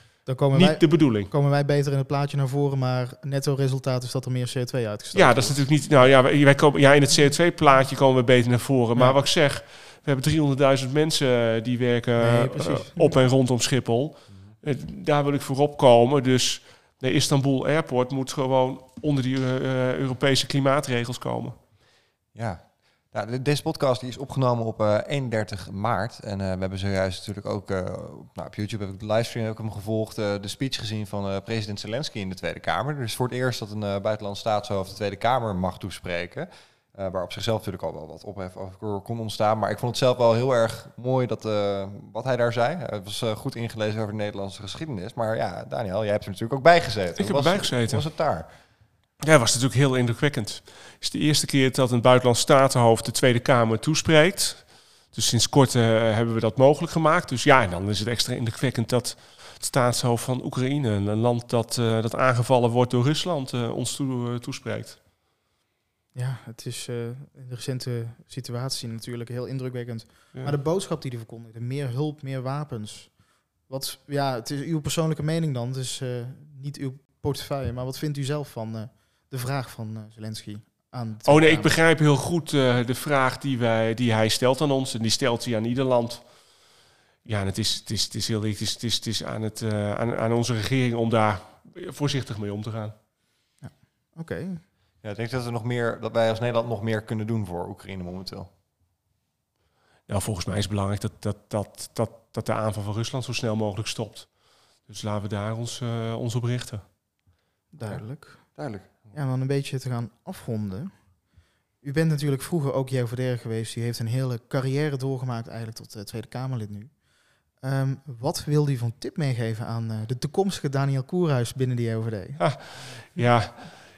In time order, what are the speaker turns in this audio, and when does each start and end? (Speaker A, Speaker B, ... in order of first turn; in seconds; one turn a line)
Speaker A: 0.2-5.6
Speaker B: 0.5-1.3
Speaker B: 5.1-21.6
Speaker A: 12.2-13.2
Speaker C: 22.3-48.5
Speaker B: 47.2-48.0
Speaker B: 49.2-65.0
Speaker A: 66.1-81.8
Speaker B: 81.2-86.2
Speaker B: 87.2-92.9
Speaker A: 93.6-94.6
Speaker C: 95.0-98.5
Speaker B: 100.1-104.3
Speaker B: 104.8-106.8
Speaker A: 107.7-108.6
Speaker C: 107.8-109.1
Speaker A: 109.1-111.1
Speaker A: 111.8-122.4
Speaker B: 122.4-123.8